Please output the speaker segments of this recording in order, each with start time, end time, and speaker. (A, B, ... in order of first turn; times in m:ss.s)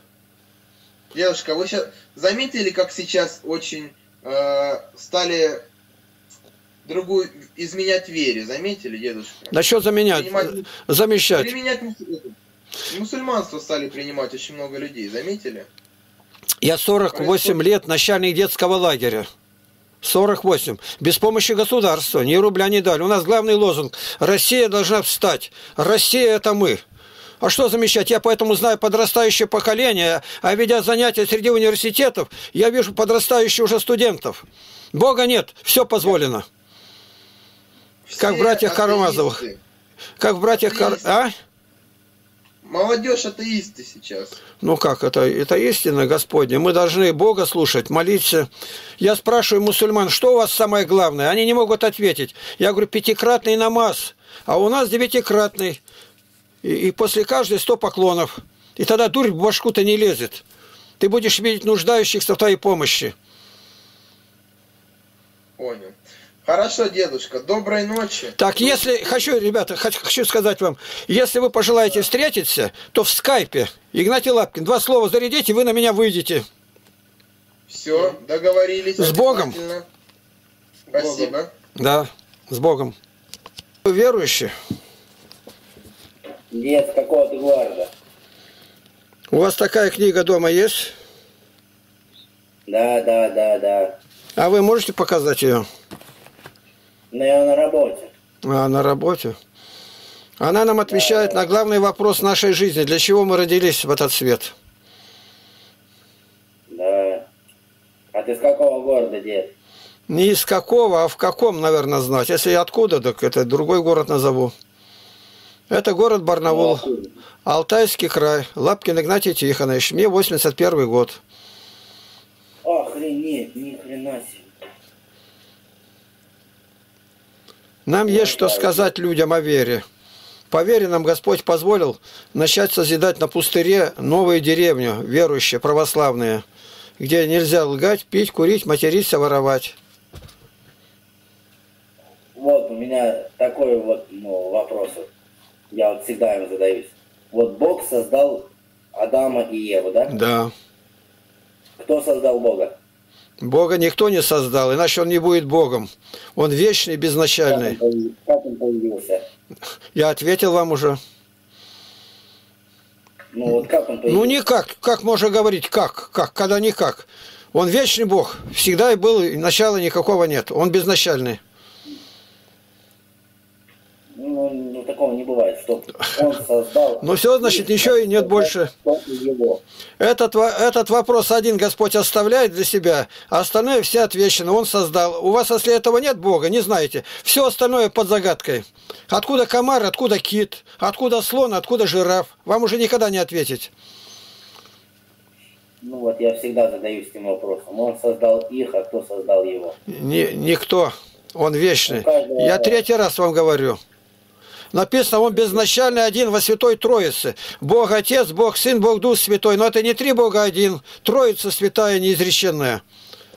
0:01.1-0:05.7 A
0:06.8-0:10.6 A
0:09.5-0:11.5 B
0:11.3-0:12.4 A
0:12.9-0:15.7 A
0:16.6-0:19.3 B
0:17.1-0:17.7 A
0:20.0-0:26.8 B
0:27.4-0:36.5 B
0:38.1-0:39.6 A
0:38.2-0:39.4 B
0:40.2-0:41.3 B
0:40.5-0:41.2 A
0:42.6-0:44.4 A
0:44.6-0:48.5 B
0:49.0-0:55.8 B
0:56.6-1:00.4 B
1:01.0-1:03.1 B
1:05.6-1:09.3 A
1:08.4-1:16.5 B
1:17.7-1:19.9 A
1:19.0-1:19.6 B
1:20.9-1:21.5 A
1:20.9-1:21.3 C
1:21.8-1:23.0 B
1:23.8-1:24.5 B
1:26.5-1:27.9 C
1:29.3-1:30.9 B
1:32.7-1:34.0 C
1:34.4-1:35.7 B
1:37.1-1:38.1 C
1:38.4-1:39.4 B
1:40.4-1:44.5 B
1:40.8-1:41.5 C
1:46.7-1:47.3 C
1:48.1-1:49.5 C
1:50.1-1:54.5 B
1:55.7-1:56.8 B
1:56.5-1:57.1 C
1:57.4-2:01.2 B
2:02.6-2:04.5 C
2:07.9-2:09.8 B
2:08.0-2:08.9 C
2:10.5-2:16.4 B
2:17.0-2:19.8 B
2:22.4-2:25.1 C
2:25.7-2:30.1 C
2:30.1-2:30.5 B
2:31.8-2:32.7 C
2:33.4-2:37.8 B
2:37.5-2:39.2 C
2:39.9-2:41.0 B
2:43.3-2:44.4 C
2:44.1-2:51.4 B
2:54.2-2:59.6 C
2:57.0-2:58.7 B
3:00.0-3:13.7 B
3:15.8-3:19.8 C
3:19.9-3:23.8 B
3:21.9-3:22.8 C
3:24.7-3:32.8 B
3:25.4-3:25.7 C